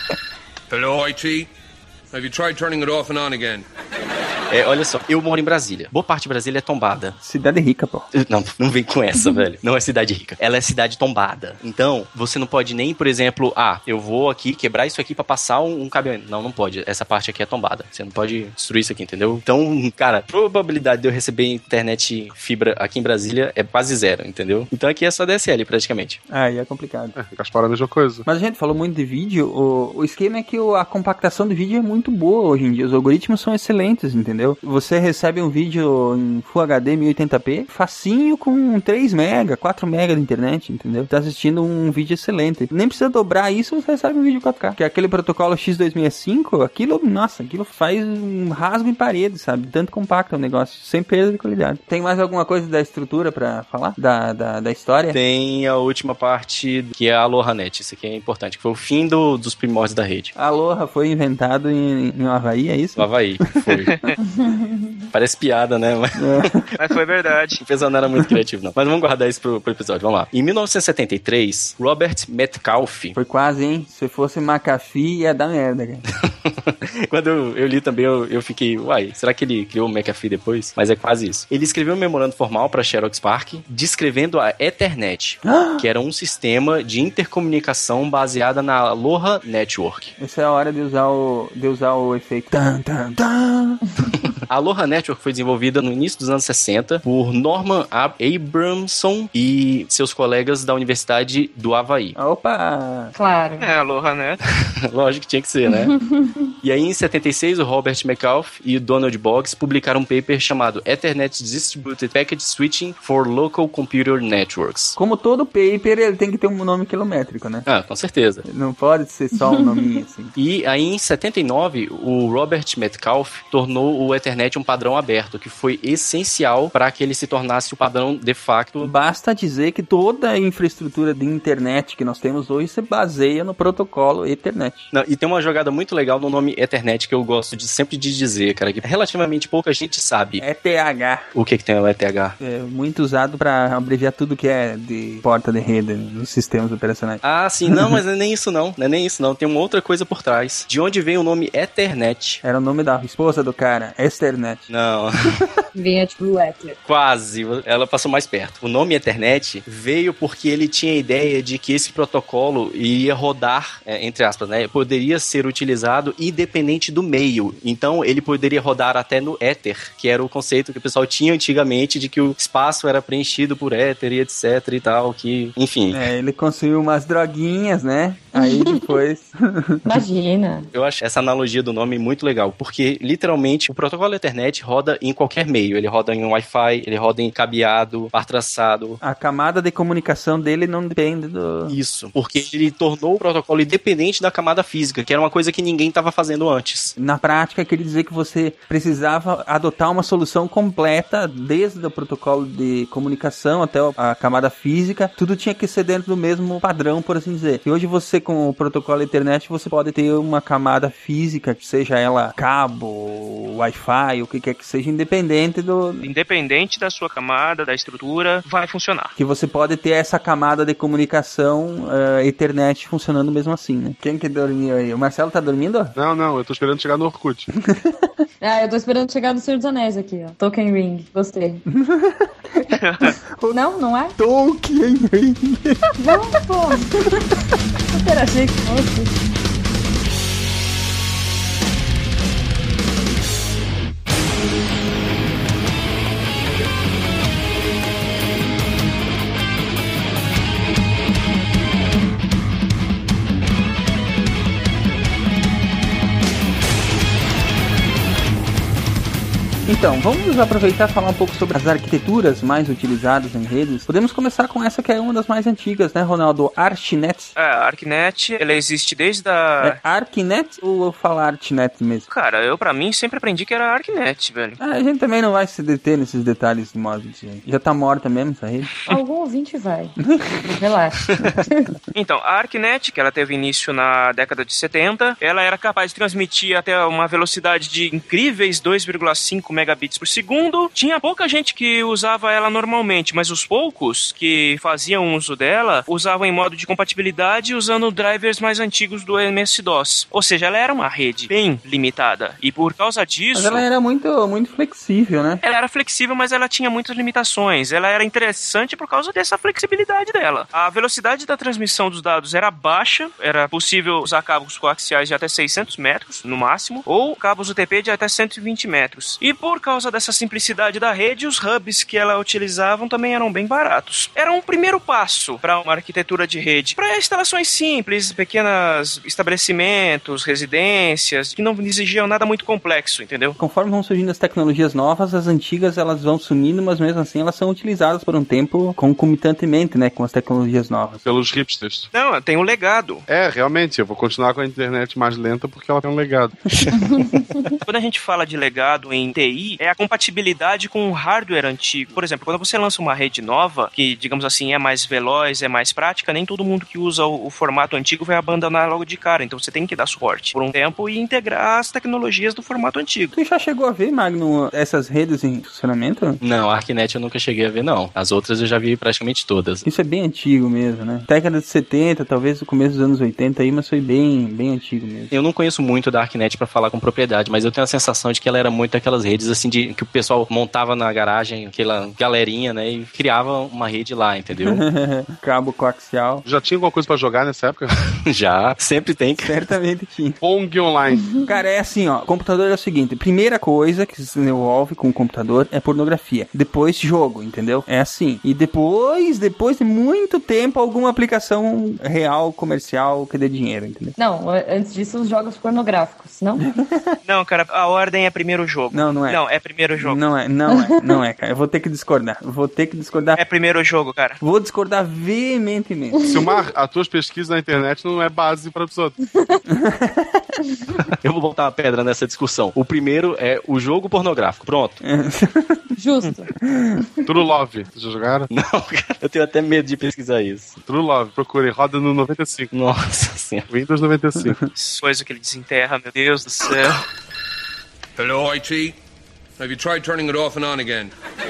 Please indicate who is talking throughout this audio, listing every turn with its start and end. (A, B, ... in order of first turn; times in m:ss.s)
0:00.7-0:01.5 A
0:02.1-0:03.6 A
0:04.5-0:07.2 B
0:07.2-0:08.1 C
0:08.1-0:26.2 B
0:26.3-0:27.2 C
0:27.2-0:28.2 D
0:28.2-0:55.2 C
0:55.1-1:00.3 B
1:00.4-1:03.1 C
1:03.0-1:04.1 B
1:04.2-1:05.1 E
1:05.1-1:06.5 B
1:06.2-1:06.7 C
1:06.8-1:07.6 F
1:07.6-1:13.2 B
1:13.2-1:16.0 C
1:16.2-1:30.1 B
1:25.4-1:25.9 C
1:30.2-1:33.8 C
1:34.5-1:42.2 B
1:42.2-1:43.1 C
1:43.2-1:43.7 E
1:43.6-1:44.4 F
1:44.9-1:45.9 B
1:45.7-1:46.5 E
1:46.6-1:55.0 B
1:55.0-1:57.7 C
1:57.7-1:58.4 B
1:58.5-2:00.3 C
1:59.5-1:59.8 E
2:00.4-2:08.9 B
2:08.8-2:14.9 C
2:14.9-2:20.4 B
2:20.4-2:21.2 C
2:21.4-2:22.4 B
2:22.4-2:28.0 C
2:27.2-2:32.4 B
2:32.4-2:34.7 C
2:34.7-2:35.4 B
2:35.7-2:36.8 E
2:36.8-2:56.0 B
2:55.9-3:00.0 C
2:58.4-2:58.8 E
2:59.9-3:00.7 E
3:00.7-3:09.0 B
3:09.0-3:11.8 C
3:11.7-3:17.0 B
3:17.0-3:36.1 C
3:36.0-3:39.1 F
3:39.2-3:46.0 C
3:46.0-3:47.5 D
3:47.7-3:48.1 C
3:48.4-3:51.6 E
3:51.7-3:52.8 C
3:52.8-3:53.1 F
3:53.4-3:53.6 C
3:53.5-3:54.2 E
3:54.2-3:55.9 C
3:56.0-3:57.3 E
3:57.9-3:59.2 E
4:19.7-4:27.3 C
4:27.4-4:29.8 F
4:29.6-4:32.1 C
4:32.1-4:34.6 F
4:34.6-4:38.7 C
4:38.9-4:40.0 E
4:40.6-4:41.7 E
4:41.9-5:03.6 F
5:03.3-5:05.4 C
5:05.4-5:33.4 F
5:33.4-5:41.0 C
5:41.0-5:41.9 D
5:41.9-5:43.0 F
5:43.1-5:46.4 D
5:46.8-5:47.4 E
5:47.7-6:03.1 F
6:03.1-6:06.2 C
6:06.2-6:09.7 B
6:09.6-6:15.1 C
6:15.1-6:24.6 B
6:24.3-6:26.2 C
6:26.2-6:27.7 D
6:28.0-6:29.4 B
6:29.2-6:30.2 C
6:30.2-6:31.2 D
6:31.2-6:44.0 C
6:44.0-6:46.4 E
6:46.4-6:47.0 C
6:47.0-6:50.0 F
6:48.7-6:49.2 C
6:49.8-6:53.2 C
6:53.2-6:54.2 F
6:54.2-6:56.0 C
6:56.0-6:59.0 D
6:59.5-7:00.3 C
7:01.0-7:04.8 B
7:04.8-7:05.7 C
7:05.8-7:06.3 E
7:06.5-7:06.8 C
7:07.0-7:08.3 D
7:08.3-7:10.6 B
7:10.6-7:12.5 D
7:12.5-7:13.5 B
7:13.5-7:14.4 D
7:14.6-7:16.9 F
7:18.0-7:18.8 A
7:19.4-7:20.9 A